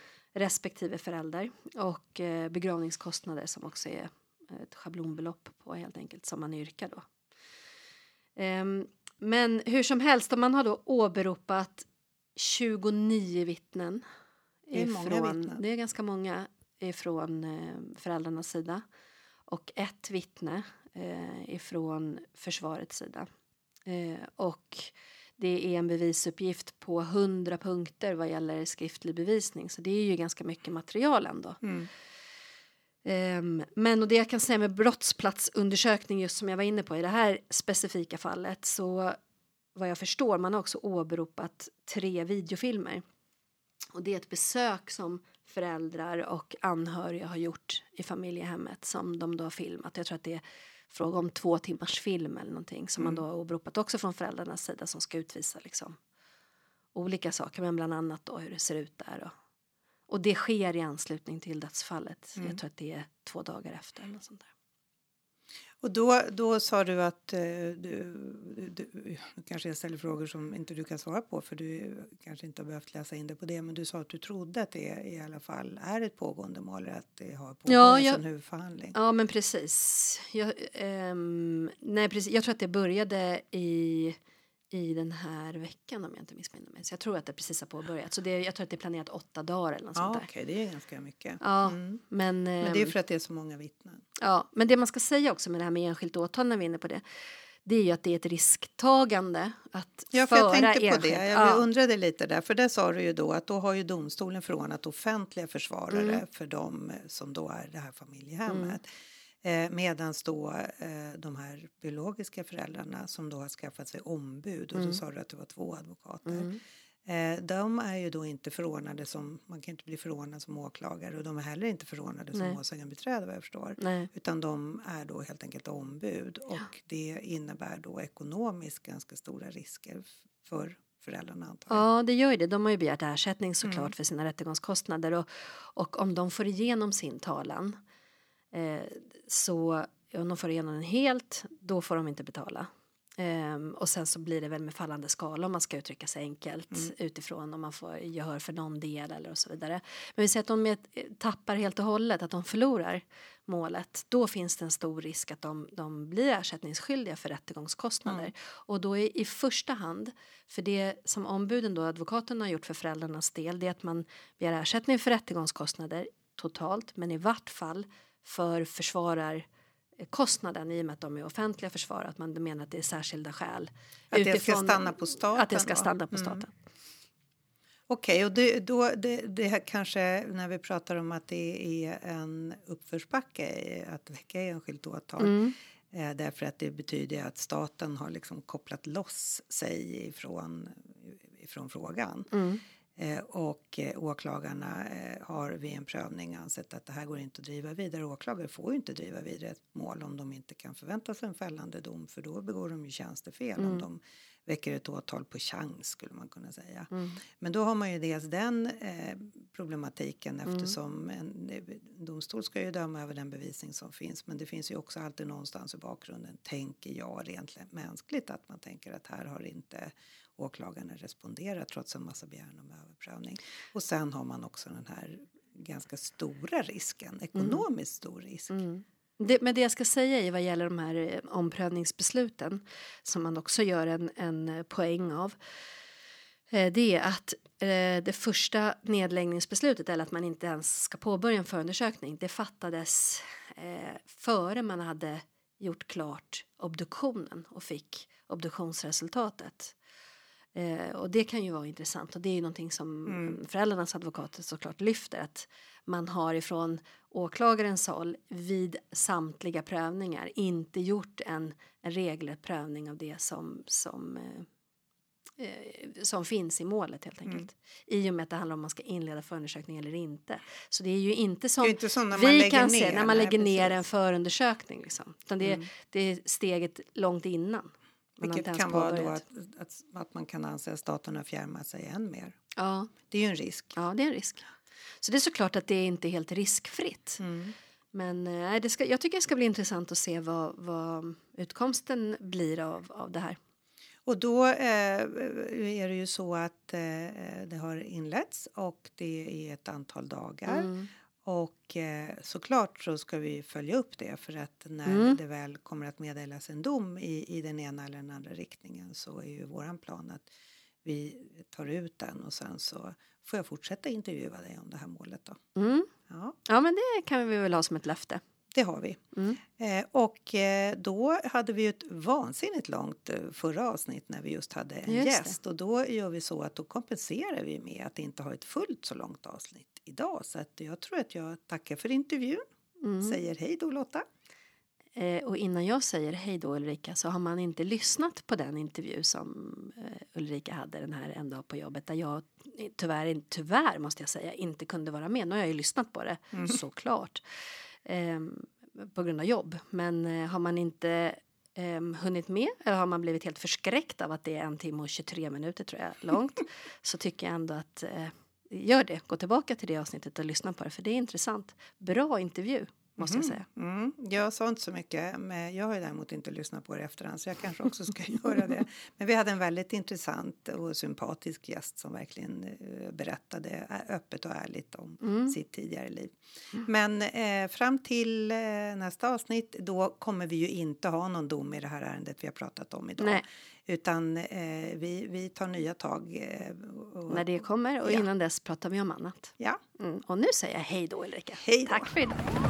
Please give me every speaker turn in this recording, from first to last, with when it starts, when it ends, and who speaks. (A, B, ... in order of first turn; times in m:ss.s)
0:00.3-0:07.0 A
0:08.4-0:14.0 A
0:14.7-0:18.8 A
0:14.7-0:15.6 B
0:19.5-0:23.3 A
0:23.8-0:31.6 A
0:31.6-0:31.9 B
0:33.0-0:39.2 A
0:39.7-0:43.0 A
0:44.0-0:56.0 A
0:53.0-0:53.2 B
0:56.9-0:59.3 A
1:00.1-1:04.5 A
1:05.8-1:19.0 B
1:17.7-1:18.2 A
1:18.9-1:24.2 A
1:24.7-1:30.3 A
1:30.0-1:32.0 B
1:31.4-1:32.9 A
1:32.6-1:34.0 B
1:34.2-1:37.0 A
1:37.6-1:41.7 A
1:40.1-1:48.9 B
1:45.9-1:46.2 A
1:48.5-1:48.8 A
1:49.4-1:56.5 B
1:54.7-1:55.0 A
1:56.2-1:56.6 A
1:57.0-2:11.8 B
2:02.3-2:02.6 A
2:03.8-2:04.1 A
2:11.7-2:17.8 A
2:13.6-2:13.9 B
2:18.5-2:49.4 A
2:50.0-2:56.5 A
2:54.1-2:56.4 B
2:57.9-3:12.3 B
3:05.2-3:05.5 A
3:12.3-3:12.6 A
3:13.0-3:26.9 B
3:23.6-3:23.8 A
3:26.9-3:27.2 A
3:27.4-3:48.5 B
3:30.5-3:30.7 A
3:47.3-3:47.6 A
3:48.5-3:55.4 A
3:56.5-4:09.7 A
4:10.5-4:24.5 A
4:13.1-4:13.4 B
4:25.4-4:39.2 A
4:31.6-4:33.8 B
4:35.4-4:35.6 B
4:38.2-4:42.3 B
4:42.6-4:42.9 A
4:43.1-4:43.8 B
4:43.7-4:44.5 A
4:45.0-4:47.2 A
4:47.2-4:47.5 B
4:47.9-4:53.4 A
4:54.0-5:00.7 B
5:00.5-5:00.9 A
5:01.2-5:10.3 B
5:04.8-5:05.2 A
5:10.8-5:15.4 B
5:15.6-5:15.9 A
5:16.1-5:16.4 B
5:16.4-5:18.2 A
5:18.5-5:19.0 B
5:19.1-5:19.4 A
5:19.6-5:32.4 B
5:24.9-5:25.4 A
5:32.8-5:33.2 A
5:33.0-5:34.0 B
5:35.0-5:47.2 A
5:46.3-5:46.6 B
5:47.8-6:03.4 A
6:03.0-6:28.1 B
6:15.0-6:15.4 A
6:23.0-6:23.2 A
6:27.1-6:32.2 A
6:31.4-6:31.9 B